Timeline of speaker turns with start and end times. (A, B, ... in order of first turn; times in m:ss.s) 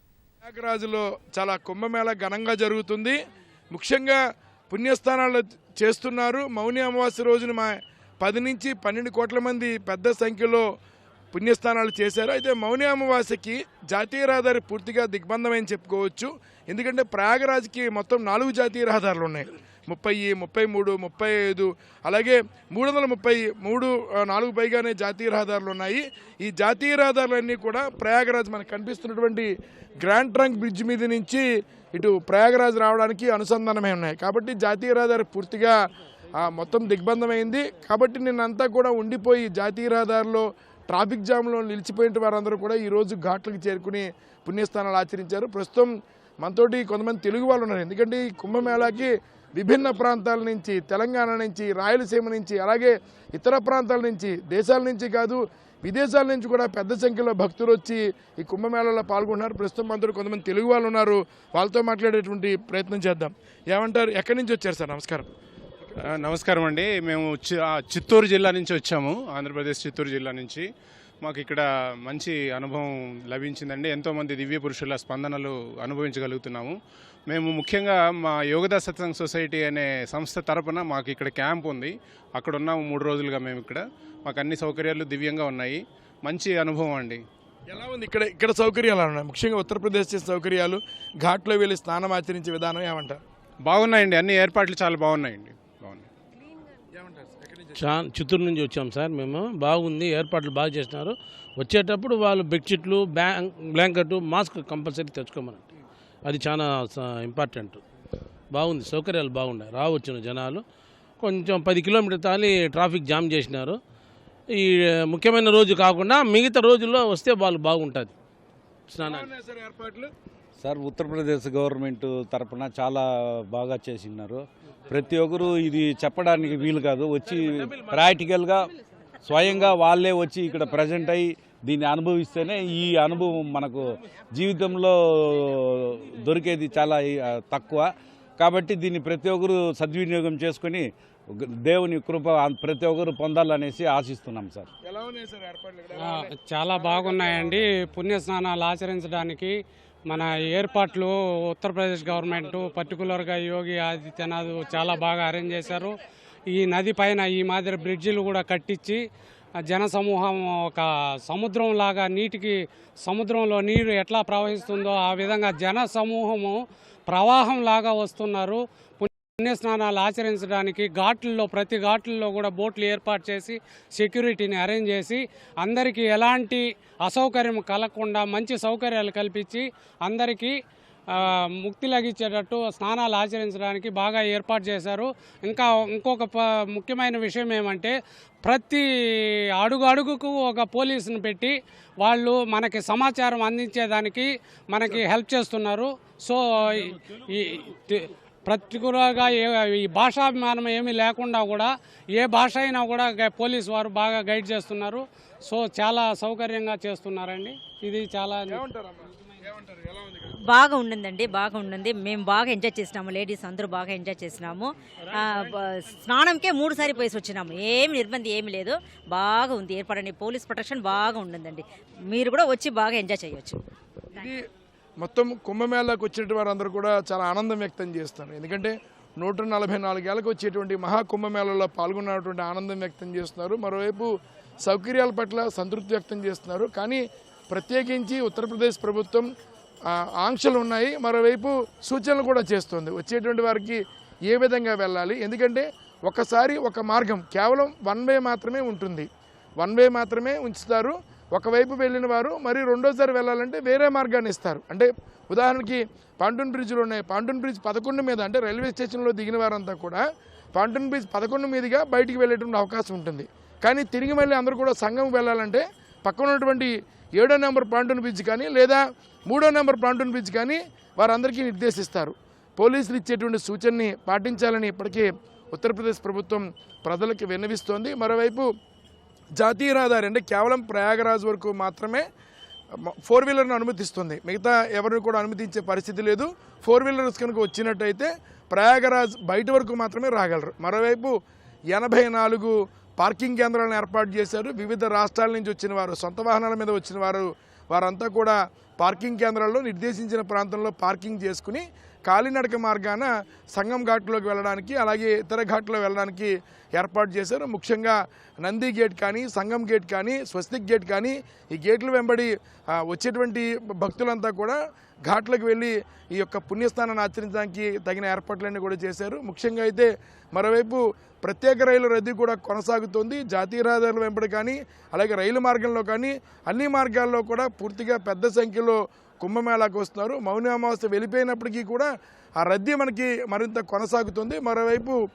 0:00.4-0:03.2 A
0:03.7-0:10.6 A
0:11.3-0:35.8 A
0:36.4-1:05.3 A
1:06.0-1:10.6 B
1:11.2-1:16.8 B
1:17.3-1:27.2 B
1:27.7-1:33.2 A
1:33.6-1:36.1 B
1:37.1-1:37.7 A
1:37.7-1:45.6 C
1:46.2-1:47.8 C
1:48.5-1:50.6 C
1:51.2-1:53.8 C
1:54.5-1:58.1 C
1:58.9-1:59.3 C
1:59.0-2:00.1 A
2:00.6-2:08.7 D
2:09.2-2:24.7 D
2:24.8-2:27.6 A
2:26.0-2:36.0 E
2:36.5-2:39.0 E
2:39.6-3:00.5 E
3:01.1-3:08.8 E
3:09.6-3:28.6 E
3:28.5-3:30.4 A
3:30.4-3:43.6 F
3:44.1-3:44.4 A
3:45.0-3:59.3 A
3:59.9-4:09.1 A
4:09.6-4:20.0 A
4:20.5-4:38.5 A
4:39.4-4:42.0 A
4:42.8-4:51.1 A
4:51.7-5:35.0 A